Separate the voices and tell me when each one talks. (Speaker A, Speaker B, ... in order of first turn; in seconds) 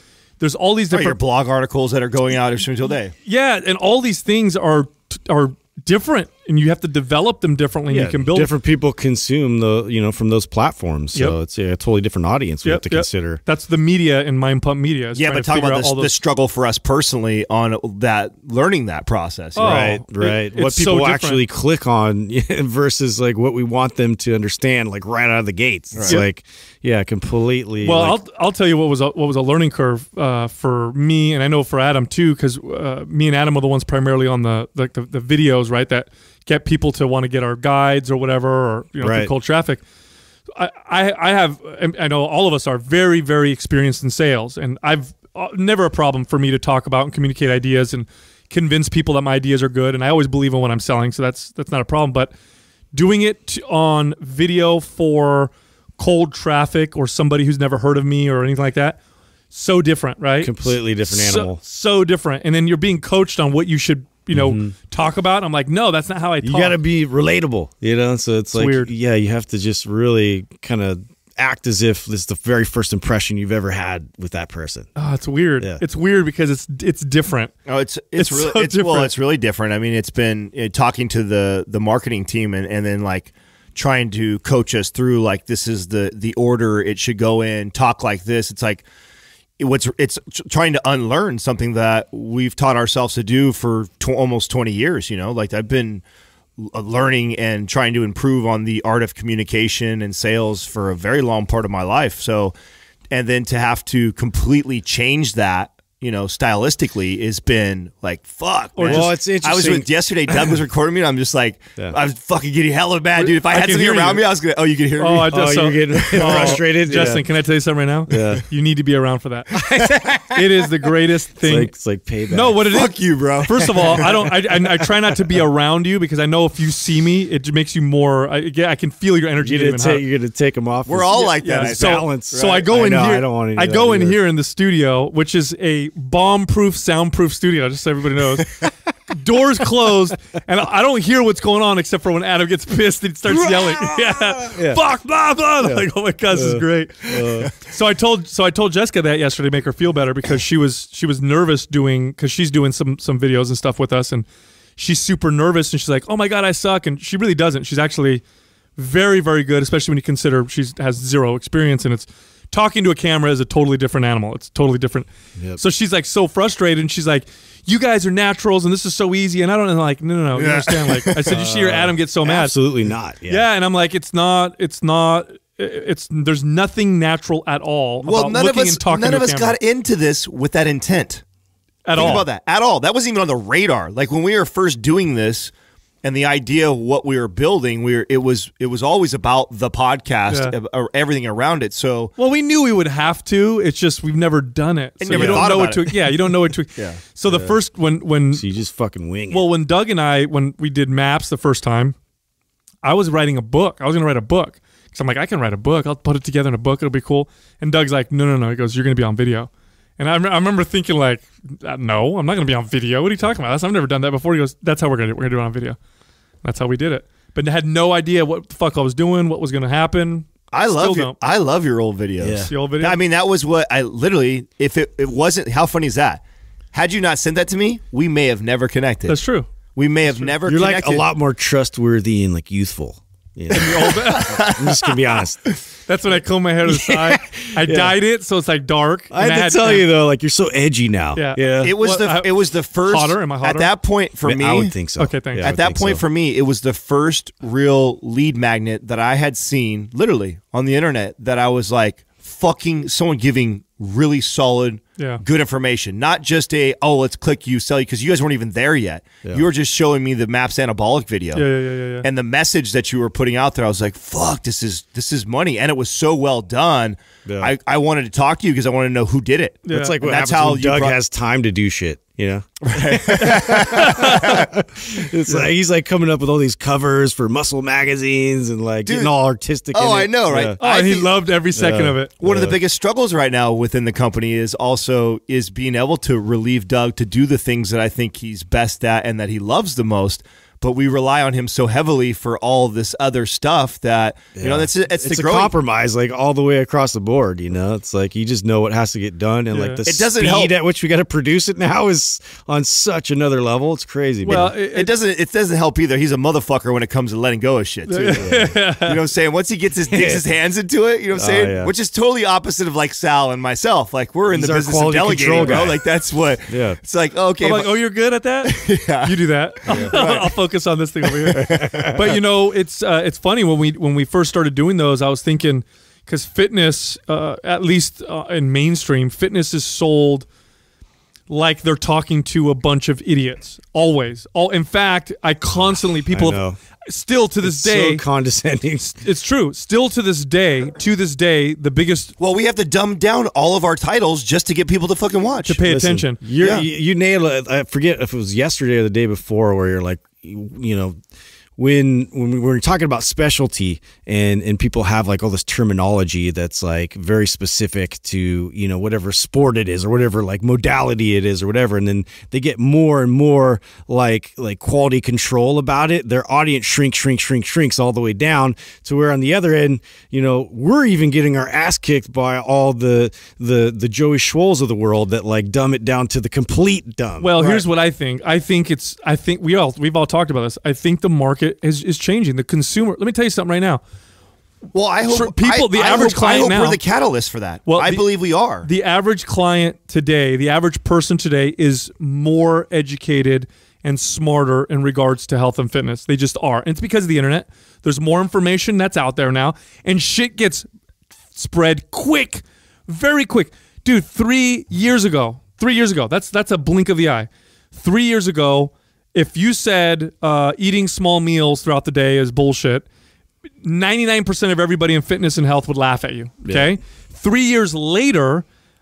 Speaker A: 0.4-1.2, 3.2-8.5, 12.6-16.1, 19.6-21.4, 27.8-39.8, 40.5-52.3, 52.9-59.0, 59.5-66.8, 68.5-68.9, 75.0-77.5, 78.2-79.1, 108.8-109.1, 113.2-114.2, 115.0-121.7, 122.3-130.0, 131.1-158.2, 158.8-172.5, 173.3-179.6, 181.8-182.2, 190.3-190.5, 192.2-198.4, 199.3-202.0, 202.8-215.8, 216.4-221.2, 222.5-223.0, 229.1-229.5, 233.5-234.4, 235.9-239.9, 241.2-242.3, 242.8-243.7, 245.0-245.5, 261.3-262.1, 269.7-269.9, 273.7-274.4, 280.6-282.1, 299.5-299.8, 304.2-304.9, 307.9-309.0, 317.4-330.3, 331.3-338.0, 339.0-342.1, 345.4-346.2, 377.2-383.8, 385.1-386.8, 387.7-388.0, 388.6-400.7, 401.3-412.9, 413.6-418.4
Speaker B: 0.9-3.1, 15.2-19.9, 25.9-26.2, 77.7-88.8, 89.6-96.0, 96.6-102.5, 103.1-115.3, 116.0-116.5, 122.7-124.0, 130.9-132.7, 170.3-171.4, 178.0-181.2, 182.0-185.5, 186.0-192.1, 195.0-195.9, 196.8-197.0, 220.5-226.2, 226.7-229.2, 229.8-231.1, 233.6-234.9, 241.6-244.8, 245.4-261.4, 262.0-271.0, 272.6-274.5, 278.8-279.2, 279.7-281.1, 282.2-295.6, 299.8-300.5, 304.3-317.8, 318.4-320.4, 321.2-321.9, 342.2-345.6, 346.4-346.7, 377.4-377.7, 384.7-388.7
Speaker C: 7.9-13.4, 19.6-28.2, 39.0-39.3, 60.4-61.6, 64.3-64.7, 66.4-74.9, 108.9-109.9, 115.2-117.3, 118.1-118.4, 119.6-120.4, 121.4-122.6, 123.8-124.9, 129.4-134.2, 143.3-144.8, 145.6-147.5, 171.3-173.4, 195.1-195.5, 197.3-197.6, 198.3-199.5, 222.2-222.5, 230.4-235.5, 236.7-237.9, 239.1-241.8, 244.2-246.0, 267.2-267.5, 269.7-280.6, 281.5-282.6, 294.4-304.5, 308.2-308.5, 309.9-310.2, 311.1-311.7, 314.3-315.8, 316.5-316.8, 319.7-320.0, 321.3-322.1, 335.5-336.6, 337.4-339.0, 345.6-351.0, 351.6-377.3, 416.4-416.7